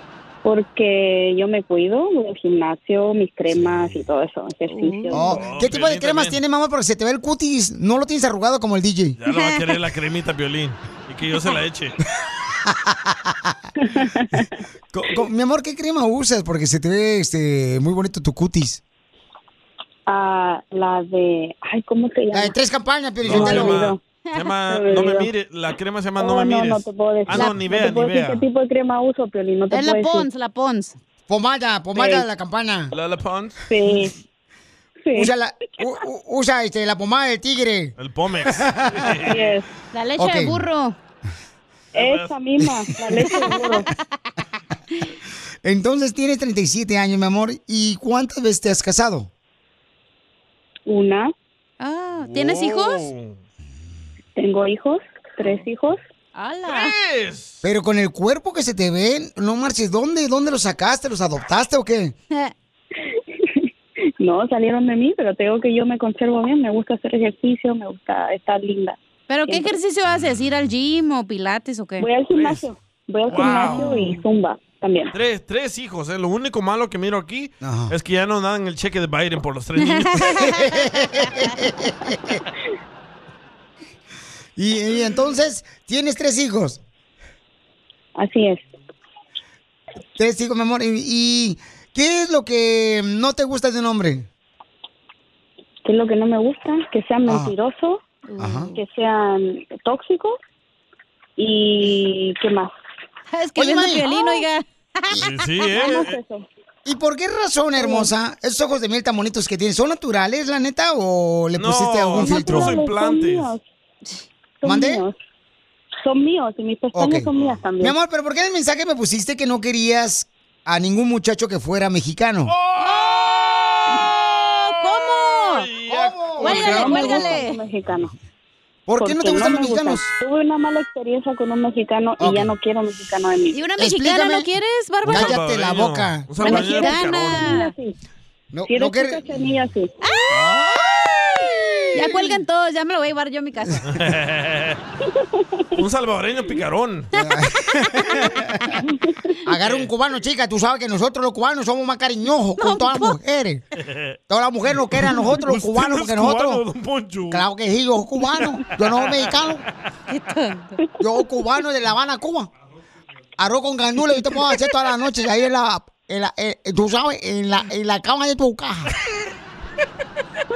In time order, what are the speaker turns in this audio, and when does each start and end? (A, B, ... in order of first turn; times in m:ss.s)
0:00.4-0:05.3 A
0:04.7-0:05.3 B
0:05.1-0:09.2 C
0:05.3-0:06.4 D
0:09.2-0:12.0 D
0:09.3-0:09.6 B
0:12.7-0:13.5 C
0:13.8-0:14.4 A
0:14.9-0:18.8 C
0:20.1-0:22.5 A
0:22.3-0:23.8 C
0:23.2-0:28.4 D
0:23.3-0:24.0 A
0:24.7-0:25.3 A
0:26.2-0:30.3 A
0:29.7-0:31.0 B
0:31.3-0:32.9 C
0:31.9-0:32.2 A
0:32.9-0:33.6 D
0:33.7-0:34.1 A
0:35.0-0:35.3 A
0:35.1-0:37.9 C
0:38.0-0:39.5 D
0:38.5-0:39.1 C
0:39.3-0:39.6 A
0:39.9-0:41.0 B
0:40.2-0:40.6 C
0:41.9-0:42.3 D
0:42.0-0:43.9 A
0:45.6-0:49.3 C
0:50.9-0:51.3 A
0:51.8-0:53.1 B
0:52.2-0:53.4 D
0:54.4-0:56.0 A
0:56.4-0:56.9 B
0:56.6-0:57.6 D
0:57.6-1:02.2 C
1:04.2-1:09.7 A
1:09.3-1:12.0 B
1:12.0-1:15.1 A
1:12.3-1:12.6 D
1:13.3-1:14.2 D
1:13.3-1:14.0 B
1:15.1-1:20.4 D
1:17.6-1:17.9 C
1:19.8-1:20.7 B
1:20.3-1:22.4 C
1:24.6-1:26.8 C
1:28.2-1:28.6 A
1:30.2-1:34.3 C
1:35.8-1:38.0 A
1:38.3-1:38.7 B
1:38.4-1:38.7 C
1:38.7-1:40.4 A
1:41.4-1:42.7 A
1:43.3-1:44.6 B
1:43.6-1:44.1 C
1:45.1-1:46.2 D
1:45.8-1:46.4 A
1:46.8-1:52.7 C
1:47.8-1:48.1 A
1:51.6-1:53.5 D
1:52.2-1:53.6 A
1:54.6-1:55.2 A
1:54.6-1:55.0 C
1:56.0-1:58.0 A
1:56.9-1:57.3 C
1:57.8-2:02.5 C
2:02.5-2:07.2 D
2:04.6-2:05.6 B
2:05.9-2:07.2 C
2:06.4-2:07.6 B
2:06.5-2:08.1 A
2:08.9-2:10.1 C
2:09.0-2:13.6 A
2:12.2-2:12.5 C
2:13.5-2:15.3 B
2:13.8-2:14.5 C
2:15.0-2:16.6 C
2:15.1-2:17.5 D
2:16.4-2:17.7 B
2:16.6-2:17.9 A
2:18.5-2:19.2 C
2:18.7-2:19.9 A
2:20.0-2:20.4 B
2:20.3-2:21.0 C
2:21.6-2:22.3 C
2:21.9-2:23.9 B
2:23.9-2:24.8 D
2:25.7-2:27.1 D
2:27.1-2:28.8 C
2:29.4-2:33.6 C
2:29.6-2:29.9 D
2:32.6-2:33.1 B
2:33.9-2:34.1 D
2:34.3-2:36.6 C
2:35.0-2:37.4 D
2:37.3-2:39.6 C
2:39.0-2:39.4 D
2:40.1-2:40.8 B
2:41.0-2:42.5 C
2:43.4-2:48.9 C